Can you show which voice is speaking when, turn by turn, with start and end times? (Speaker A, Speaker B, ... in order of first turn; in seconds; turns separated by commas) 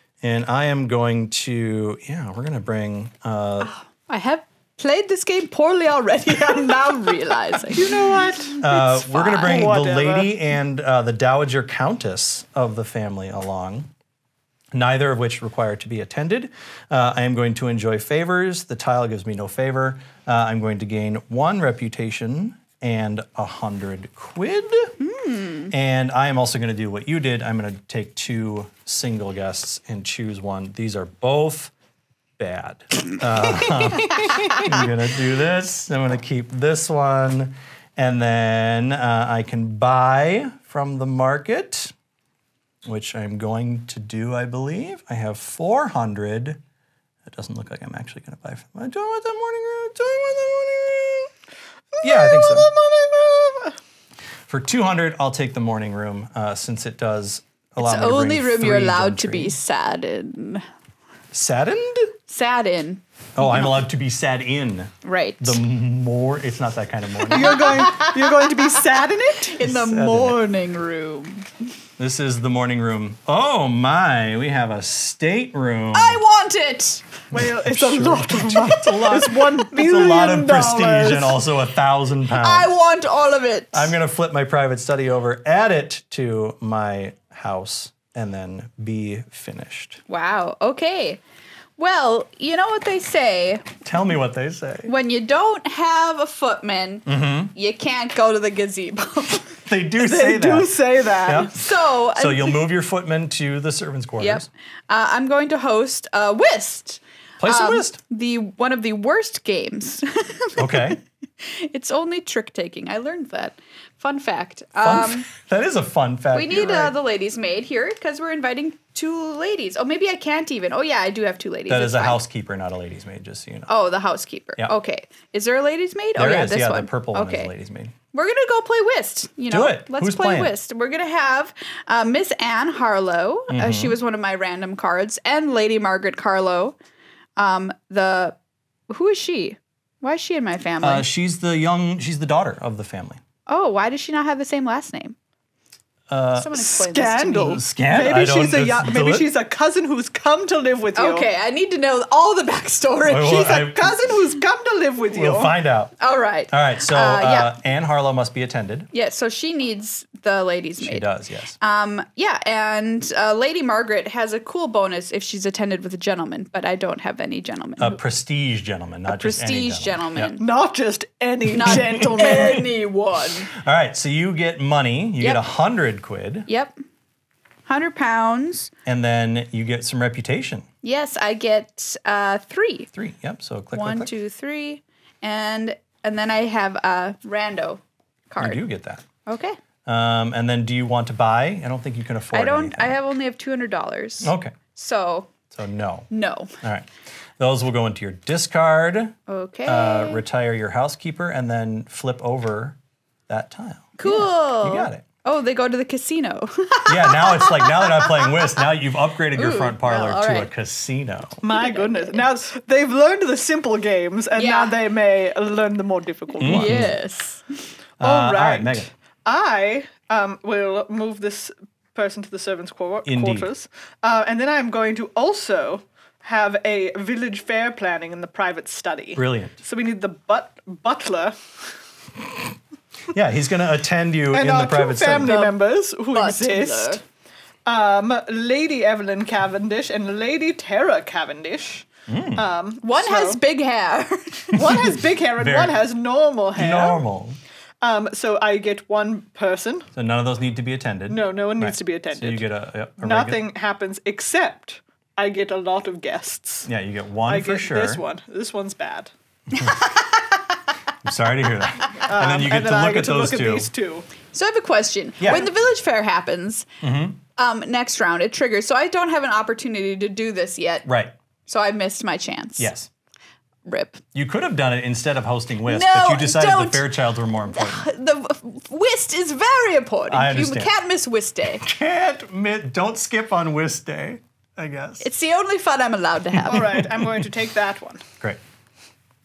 Speaker A: 0.2-3.7, Speaker B: 3.6-8.0, Speaker C: 7.7-8.6, Speaker B: 8.5-9.6, Speaker A: 8.6-13.9, Speaker C: 9.4-10.3, Speaker A: 14.7-24.9, Speaker B: 25.0-25.7, Speaker A: 25.7-31.7, Speaker A: 32.4-41.9, Speaker B: 34.3-34.6, Speaker A: 42.8-46.6, Speaker A: 47.2-51.3, Speaker C: 52.0-53.8, Speaker A: 52.0-52.7, Speaker A: 54.5-59.6, Speaker B: 57.8-60.6, Speaker A: 61.3-62.1, Speaker B: 62.3-63.7, Speaker A: 63.4-67.8, Speaker B: 65.0-65.6, Speaker C: 67.3-69.6, Speaker B: 67.3-68.8, Speaker B: 69.3-71.5, Speaker A: 69.6-70.4, Speaker A: 72.0-76.2, Speaker B: 75.9-77.0, Speaker A: 77.3-82.7, Speaker C: 77.3-81.4, Speaker B: 82.3-83.9, Speaker A: 83.7-90.0, Speaker B: 90.1-91.2, Speaker B: 91.8-93.8, Speaker A: 93.8-94.9, Speaker B: 94.8-99.5, Speaker A: 97.0-97.5, Speaker A: 99.6-101.5, Speaker C: 100.0-101.5, Speaker B: 101.4-102.6, Speaker A: 102.2-104.5, Speaker B: 104.2-115.3, Speaker A: 107.4-108.0, Speaker A: 110.6-111.0, Speaker A: 114.8-116.9, Speaker B: 116.3-122.2, Speaker A: 121.7-123.7, Speaker B: 123.7-127.5, Speaker A: 126.2-127.9, Speaker B: 128.1-136.8, Speaker A: 129.5-130.5, Speaker A: 133.5-134.0, Speaker B: 137.4-138.4, Speaker B: 138.9-141.1, Speaker A: 140.8-143.2, Speaker B: 143.5-145.2, Speaker A: 146.1-146.6, Speaker B: 146.3-147.6, Speaker C: 146.6-151.3, Speaker A: 147.4-149.3, Speaker B: 150.9-153.4, Speaker A: 153.1-154.0, Speaker C: 153.2-155.5, Speaker A: 155.1-155.9, Speaker B: 156.0-157.5, Speaker A: 156.5-158.9, Speaker B: 158.9-161.1, Speaker A: 160.8-161.5, Speaker B: 161.6-168.0, Speaker A: 167.8-170.3, Speaker B: 169.1-170.4, Speaker C: 170.4-172.7, Speaker B: 171.5-173.5, Speaker A: 171.5-172.6, Speaker A: 173.5-176.5, Speaker B: 176.5-176.7, Speaker B: 177.7-178.7, Speaker A: 178.8-180.7, Speaker B: 180.8-182.9, Speaker A: 182.9-184.1, Speaker B: 183.7-188.6, Speaker A: 188.4-189.0, Speaker B: 189.2-189.6, Speaker A: 189.8-193.0, Speaker B: 192.3-195.3, Speaker A: 194.2-194.5, Speaker A: 195.5-196.1, Speaker B: 196.1-196.5, Speaker A: 196.6-205.0, Speaker B: 199.3-200.2, Speaker B: 204.0-208.5, Speaker A: 206.8-211.4, Speaker B: 209.3-210.5, Speaker C: 211.4-216.8, Speaker B: 211.5-212.2, Speaker B: 214.3-214.8, Speaker A: 216.4-216.9, Speaker B: 216.4-217.7, Speaker A: 218.0-218.9, Speaker C: 218.0-231.3, Speaker A: 223.0-223.5, Speaker A: 229.2-229.6, Speaker A: 233.1-235.3, Speaker C: 234.3-237.0, Speaker B: 235.2-235.6, Speaker B: 236.1-237.0, Speaker C: 237.7-243.4, Speaker A: 242.1-242.5, Speaker B: 242.8-244.6, Speaker A: 244.5-245.8, Speaker C: 244.5-247.0, Speaker A: 246.6-247.4, Speaker C: 247.8-249.9, Speaker A: 249.9-253.4, Speaker C: 251.1-252.5, Speaker C: 253.0-256.7, Speaker A: 256.6-258.0, Speaker C: 257.2-259.1, Speaker A: 259.5-259.9, Speaker B: 259.6-260.1, Speaker A: 261.0-263.7, Speaker C: 262.1-264.1, Speaker B: 264.3-266.7, Speaker A: 265.2-265.5, Speaker A: 266.8-267.2, Speaker B: 267.4-270.9, Speaker A: 270.8-271.1, Speaker B: 271.5-272.7, Speaker A: 272.6-272.9, Speaker B: 273.6-274.0, Speaker A: 274.1-277.9, Speaker B: 275.6-276.9, Speaker B: 277.5-281.6, Speaker A: 280.1-280.7, Speaker A: 281.6-285.0, Speaker B: 285.0-286.8, Speaker A: 286.4-287.2, Speaker C: 286.5-288.0